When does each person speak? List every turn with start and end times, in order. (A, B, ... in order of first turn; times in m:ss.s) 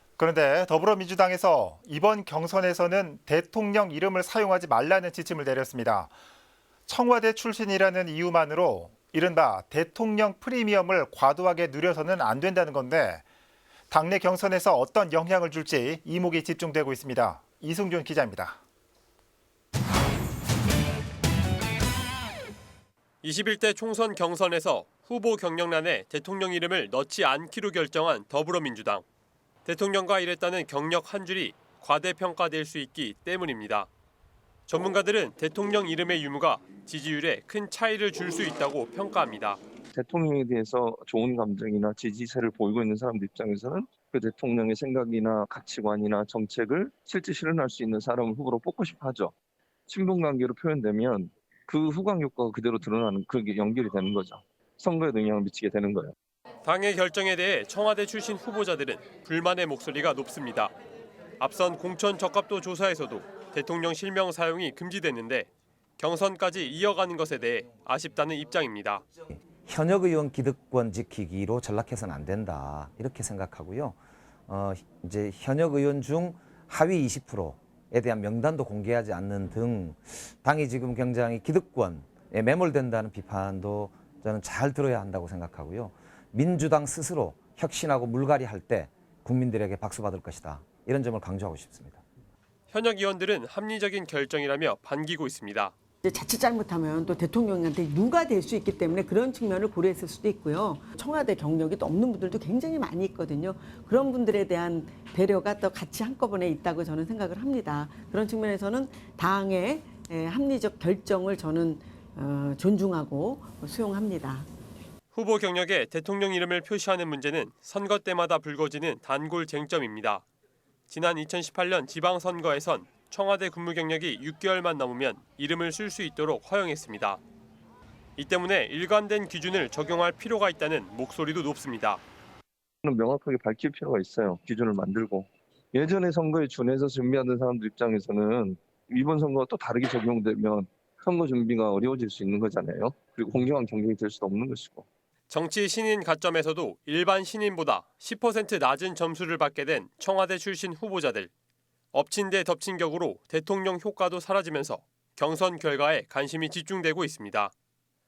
0:00.2-0:06.1 A
0:06.9-0:13.2 A
0:13.9-0:18.6 A
0:23.2-0:29.1 B
0:29.6-0:33.9 B
0:34.7-0:39.6 B
0:39.9-0:49.3 C
0:49.9-0:56.2 C
0:56.6-1:00.7 B
1:01.4-1:09.0 B
1:09.3-1:32.0 D
1:32.7-1:35.7 B
1:36.0-1:54.5 E
1:55.1-2:00.2 B
2:00.9-2:07.2 B
2:08.2-2:12.0 B
2:12.8-2:24.9 C
2:25.3-2:31.3 B
2:31.9-2:37.5 B